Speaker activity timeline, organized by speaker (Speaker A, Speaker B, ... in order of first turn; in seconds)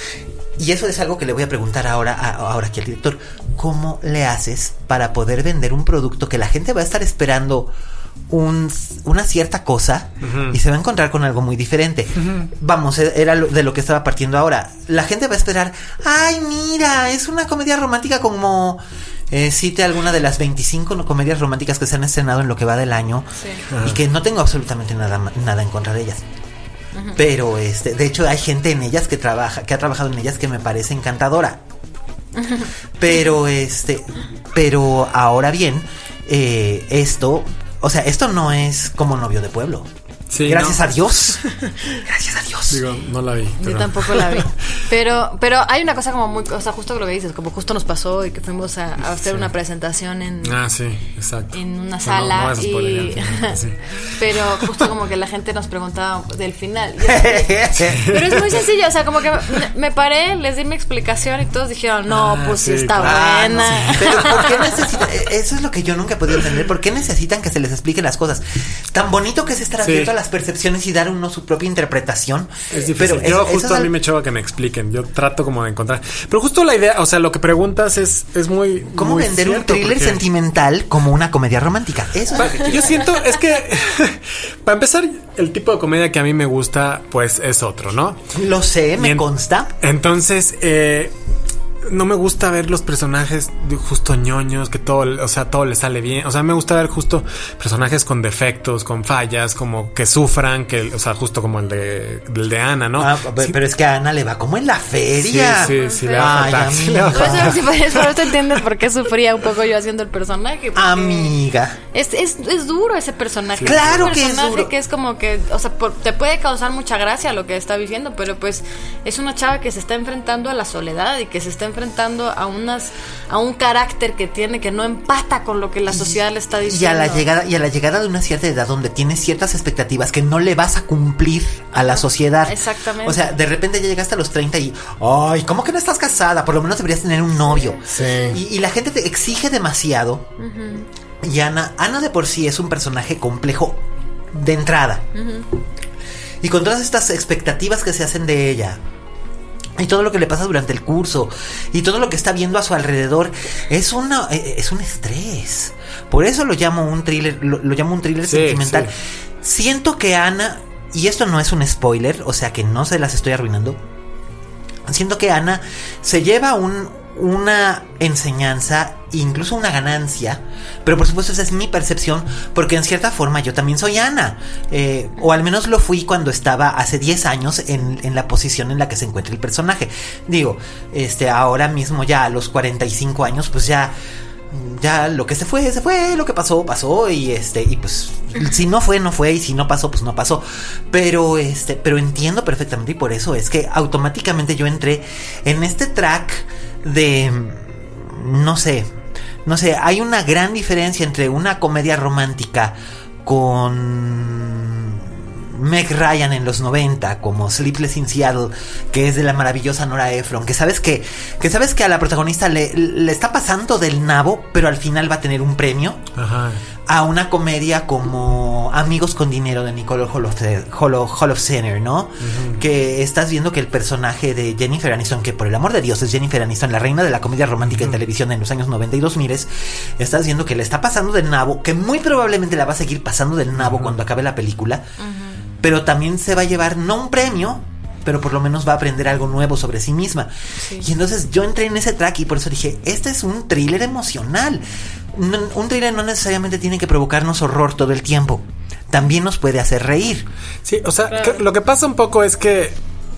Speaker A: 0.6-7.7, 8.3-26.2, 27.1-31.6, 33.0-39.9, 40.4-42.8, 57.0-58.1, 63.0-73.9, 78.9-82.8, 88.3-89.7, 103.0-107.6, 110.7-111.8, 113.6-114.7, 125.9-140.3, 141.2-145.1, 146.4-148.8, 149.8-158.9, 159.4-163.8, 164.9-183.9, 184.5-198.9, 199.4-216.0, 216.9-234.8, 235.6-244.6, 245.1-250.3
Speaker B: 10.2-10.6, 12.2-12.5, 23.7-24.0, 40.3-41.7, 42.7-44.5, 50.4-54.7, 62.1-64.8, 69.8-70.1, 72.7-80.2, 82.3-88.2, 89.0-89.2, 89.8-91.1, 91.9-103.6, 105.2-107.7, 113.6-114.2, 137.9-138.3, 158.2-158.9, 216.2-216.6, 222.2-222.6, 227.7-228.0, 233.6-234.0, 250.6-252.8
Speaker C: 23.4-23.6, 32.4-32.7, 43.6-50.6, 51.5-57.5, 58.1-64.5, 105.6-111.3, 111.9-127.2, 131.7-133.3, 137.5-137.8, 140.4-140.9, 145.1-145.5, 235.0-235.3, 240.6-240.9, 251.1-251.4